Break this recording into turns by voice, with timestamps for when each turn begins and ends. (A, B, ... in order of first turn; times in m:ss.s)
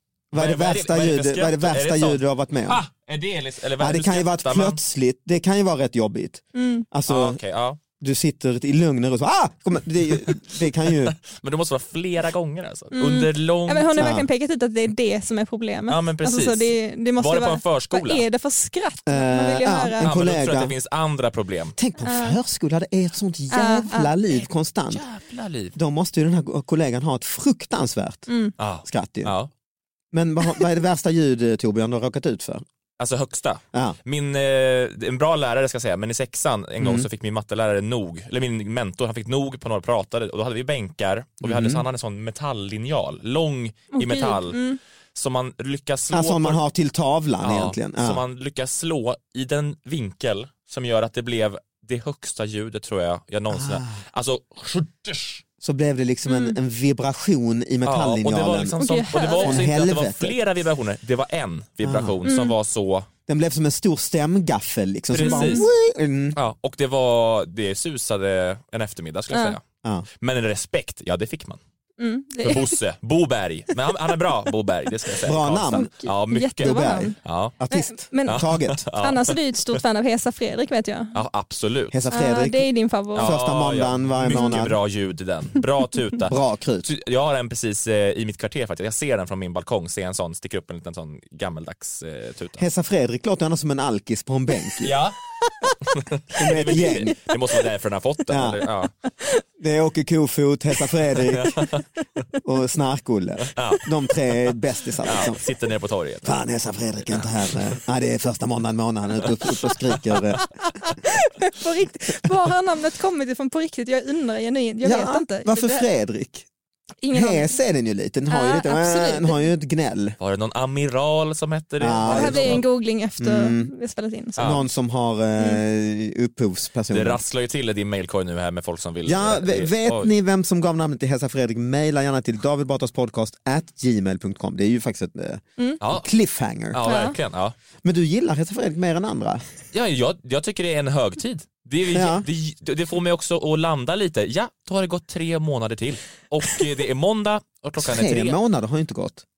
0:00.3-0:02.8 A
0:00.3-0:04.8 B
0:03.8-0:07.4 A
0:06.5-0:06.8 C
0:07.1-0:07.8 B
0:08.0-0:11.2 A
0:11.2-0:14.0 B
0:12.9-0:20.1 C
0:14.0-0:14.3 A
0:15.9-0:18.2 B
0:19.0-0:20.7 A
0:20.0-0:21.7 B
0:21.8-0:25.0 A
0:22.0-0:22.4 C
0:23.5-0:24.1 C
0:24.9-0:25.7 B
0:25.7-0:28.3 A
0:28.3-0:28.5 C
0:28.6-0:29.5 B
0:28.8-0:29.3 A
0:30.1-0:32.6 A
0:33.0-0:44.6 B
0:36.8-0:37.1 A
0:41.4-0:41.8 A
0:43.9-0:44.8 C
0:45.1-0:46.6 B
0:46.1-0:48.2 A
0:47.4-0:55.4 B
0:53.5-0:54.0 A
0:55.6-0:58.8 A
0:56.3-0:56.5 C
0:57.8-1:03.1 B
0:58.8-0:59.6 C
0:59.4-1:00.4 A
1:01.8-1:02.2 A
1:02.2-1:02.5 C
1:03.3-1:06.4 A
1:05.1-1:05.7 B
1:05.2-1:05.7 C
1:06.3-1:09.6 B
1:09.3-1:09.6 C
1:10.2-1:11.6 B
1:12.0-1:12.8 C
1:12.4-1:17.5 B
1:15.2-1:15.9 A
1:15.7-1:17.2 C
1:16.6-1:18.9 A
1:17.7-1:18.4 C
1:18.2-1:19.4 B
1:19.0-1:21.2 C
1:21.1-1:22.0 B
1:21.9-1:24.8 A
1:22.1-1:23.3 C
1:23.1-1:32.6 B
1:24.3-1:24.6 C
1:26.3-1:26.9 A
1:32.6-1:35.0 A
1:34.8-1:35.2 B
1:35.8-1:38.9 B
1:36.4-1:37.2 A
1:38.3-1:38.6 A
1:39.6-1:41.7 A
1:41.2-1:41.8 B
1:42.4-1:45.4 A
1:43.5-1:43.8 B
1:44.4-1:46.3 B
1:46.2-1:50.4 A
1:47.1-1:47.6 B
1:49.9-1:50.2 B
1:50.7-1:55.8 C
1:54.8-1:56.4 A
1:57.0-1:57.6 C
1:57.1-2:00.2 A
1:58.3-1:59.5 C
2:00.2-2:02.6 B
2:01.8-2:02.6 A
2:02.0-2:04.6 C
2:03.2-2:03.7 A
2:04.4-2:04.6 B
2:04.4-2:07.2 A
2:06.9-2:10.1 B
2:09.0-2:16.8 A
2:15.8-2:16.1 B
2:16.7-2:17.5 B
2:16.8-2:17.2 C
2:17.8-2:19.4 A
2:19.7-2:28.4 B
2:21.9-2:22.3 A
2:27.8-2:29.2 A